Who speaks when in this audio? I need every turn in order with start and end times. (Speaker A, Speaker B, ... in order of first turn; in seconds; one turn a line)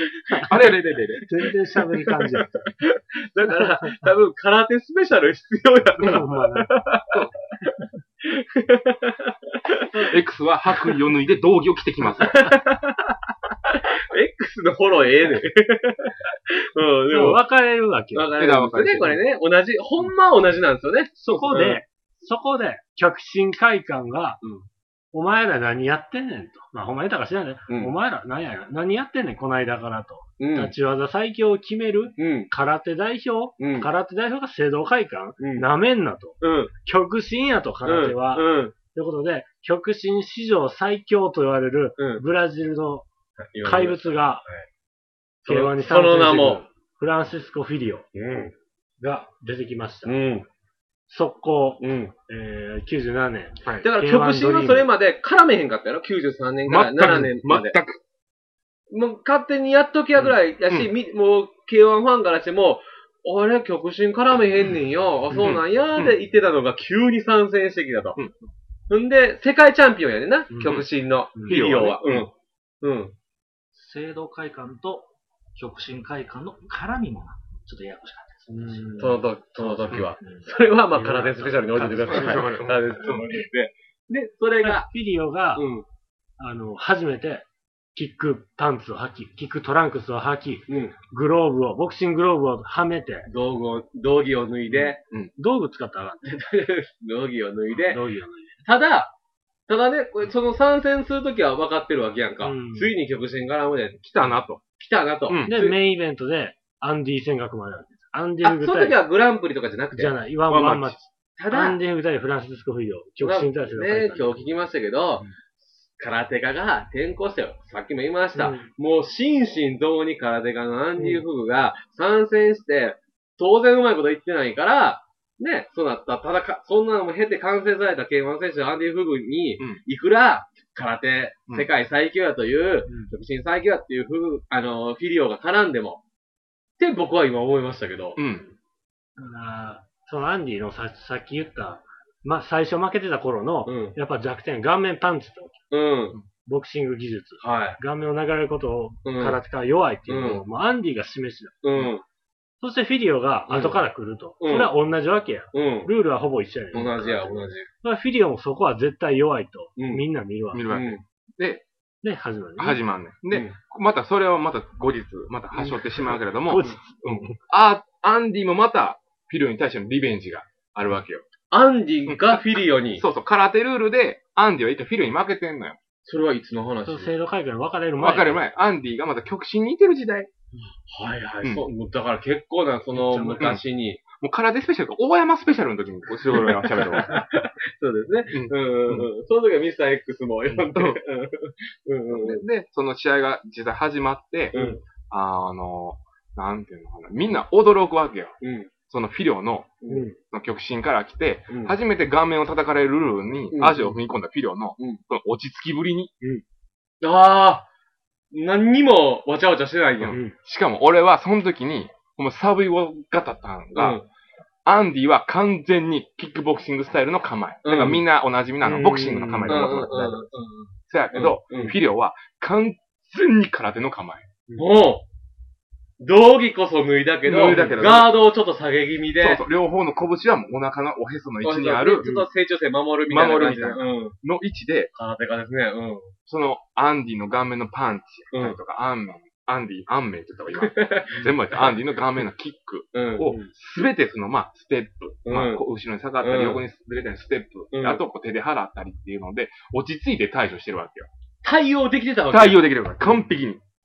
Speaker A: 0.5-1.3
Speaker B: 1.2-2.7
Speaker C: 1.9-7.2
Speaker B: 3.6-3.9
Speaker B: 6.0-6.7
Speaker C: 8.2-10.1
Speaker A: 10.1-12.5
Speaker C: 12.2-13.1
Speaker C: 13.7-17.4
Speaker B: 17.1-18.3
Speaker C: 18.1-21.8
Speaker A: 18.4-19.2
Speaker B: 21.2-24.4
Speaker B: 25.1-43.1
Speaker C: 30.4-30.7
Speaker C: 32.2-32.5
Speaker C: 33.6-33.9
Speaker C: 35.4-35.7
Speaker C: 36.4-36.7
Speaker C: 37.8-38.7
Speaker C: 42.0-42.2
Speaker C: 43.5-44.6
Speaker B: 43.6-44.4
Speaker C: 45.4-46.6
Speaker B: 45.5-48.1
Speaker C: 48.1-48.5
Speaker B: 49.0-50.2
Speaker C: 50.0-50.5
Speaker B: 51.1-54.9
Speaker C: 51.8-52.1
Speaker C: 53.8-57.8
Speaker A: 56.6-58.0
Speaker C: 58.9-68.2
Speaker A: 65.3-66.2
Speaker C: 68.9-72.3
Speaker A: 70.6-70.9
Speaker B: 71.3-71.6
Speaker A: 71.4-72.3
Speaker C: 72.8-73.1
Speaker D: 73.7-80.5
Speaker B: 78.5-79.2
Speaker C: 79.0-84.9
Speaker B: 80.9-83.2
Speaker A: 82.0-83.2
Speaker B: 84.6-85.7
Speaker C: 85.5-85.8
Speaker B: 86.4-93.3
Speaker C: 90.7-90.9
Speaker C: 93.3-95.0
Speaker B: 94.7-96.3
Speaker C: 96.2-98.0
Speaker B: 97.7-98.5
Speaker C: 98.6-99.1
Speaker C: 99.7-105.8
Speaker B: 102.4-102.9
Speaker A: 104.0-104.6
Speaker A: 105.3-105.5
Speaker B: 105.5-109.0
Speaker C: 108.4-110.2
Speaker B: 109.9-114.4
Speaker A: 110.5-111.0
Speaker C: 111.4-111.8
Speaker C: 113.2-136.0
Speaker B: 118.3-118.7
Speaker B: 121.0-121.2
Speaker B: 132.9-133.1
Speaker C: 136.8-138.2
Speaker A: 138.2-138.5
Speaker B: 139.2-145.6
Speaker C: 143.7-143.9
Speaker C: 145.7-146.2
Speaker B: 146.4-151.9
Speaker C: 147.4-147.8
Speaker C: 149.0-149.4
Speaker C: 150.1-150.4
Speaker C: 151.6-152.0
Speaker B: 152.6-160.6
Speaker C: 153.5-153.8
Speaker C: 154.4-154.7
Speaker C: 155.5-155.9
Speaker C: 156.7-157.7
Speaker C: 159.8-160.0
Speaker A: 160.5-161.6
Speaker C: 160.7-161.0
Speaker B: 162.0-162.8
Speaker A: 162.6-171.2
Speaker C: 163.3-163.6
Speaker B: 166.5-167.4
Speaker C: 171.5-173.0
Speaker A: 172.1-175.8
Speaker C: 176.0-177.1
Speaker B: 176.8-178.3
Speaker A: 178.0-180.3
Speaker C: 180.9-184.0
Speaker B: 182.9-183.4
Speaker A: 183.3-183.6
Speaker A: 184.1-187.2
Speaker C: 186.8-192.4
Speaker A: 188.3-189.1
Speaker A: 190.5-191.0
Speaker A: 192.1-194.5
Speaker C: 194.5-194.8
Speaker B: 194.5-194.8
Speaker A: 195.1-198.3
Speaker C: 198.4-198.7
Speaker A: 198.9-206.1
Speaker C: 199.8-200.1
Speaker B: 199.9-200.2
Speaker C: 201.5-201.7
Speaker C: 203.5-203.9
Speaker C: 207.0-207.7
Speaker C: 208.3-210.2
Speaker A: 210.0-214.0
Speaker B: 210.1-210.3
Speaker C: 213.7-214.1
Speaker A: 214.6-220.3
Speaker C: 217.6-218.0
Speaker B: 218.6-219.8
Speaker C: 219.5-221.7
Speaker A: 220.9-224.3
Speaker C: 224.6-225.1
Speaker C: 226.0-229.4
Speaker A: 227.2-228.1
Speaker B: 227.4-227.8
Speaker A: 229.2-232.1
Speaker C: 231.4-234.1
Speaker B: 232.0-232.3
Speaker A: 233.1-234.9
Speaker C: 234.9-236.1
Speaker A: 236.3-251.1
Speaker C: 238.3-238.6
Speaker C: 240.6-241.7
Speaker C: 242.9-243.5
Speaker C: 245.2-245.6
Speaker C: 246.2-246.6
Speaker C: 247.7-248.0
Speaker C: 251.4-253.2
Speaker A: 252.3-253.6